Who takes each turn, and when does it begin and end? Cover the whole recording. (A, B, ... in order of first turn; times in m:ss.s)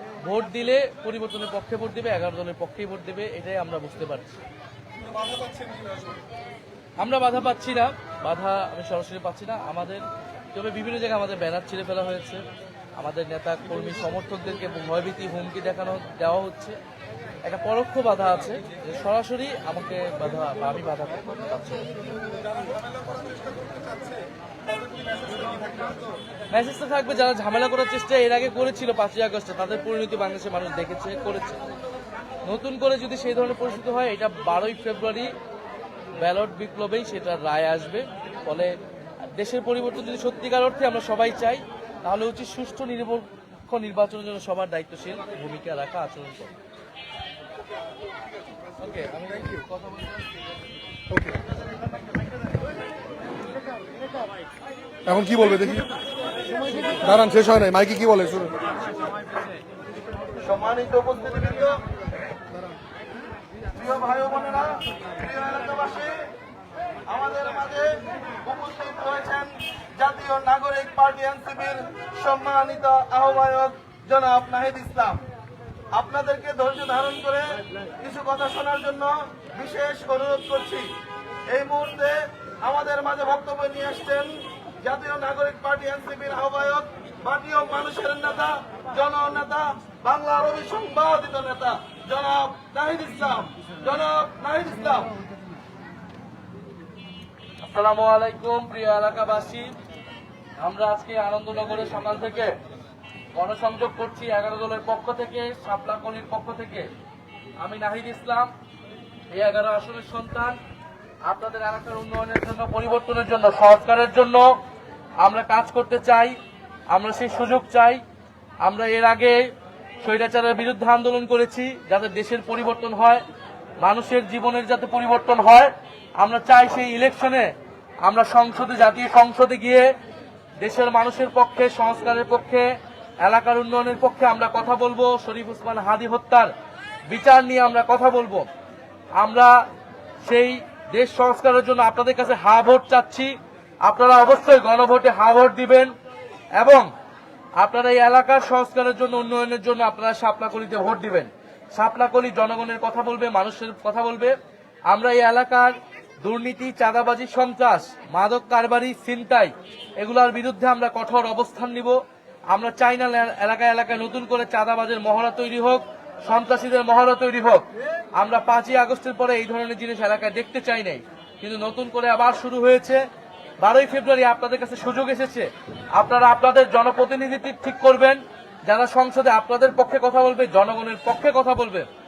0:00.2-0:04.4 A
0:05.0-0:06.2 B
0:07.0-0:12.4 A
0:13.0-0:16.8 A
0:17.4-0:21.9 A
0:22.3-0:26.1 B
0:26.5-0:31.6 A
0:32.4-0:35.3 A
0:36.2-0:38.7 A
0:39.3-0:46.5 A
0:48.8-0:50.1 A
0:55.1-0:55.9 B
0:57.0-0:58.6 B
1:00.4-1:01.8 C
1:03.7-1:06.3 C
1:07.1-1:15.2 C
1:15.9-1:20.9 C
1:21.5-1:35.1 C
1:37.6-1:39.7 A
1:40.6-1:42.5 A
1:43.4-1:46.9 A
1:47.6-1:48.5 A
1:49.3-1:50.6 A
1:51.2-1:54.6 A
1:55.2-1:56.4 A
1:56.9-1:58.0 A
1:58.6-2:03.2 A
2:03.8-2:09.9 A
2:10.6-2:16.5 A
2:17.1-2:18.5 A
2:19.2-2:19.6 A
2:20.2-2:25.9 A
2:26.6-2:26.9 A
2:27.6-2:34.4 A
2:34.9-2:53.0 A
2:53.6-3:01.9 A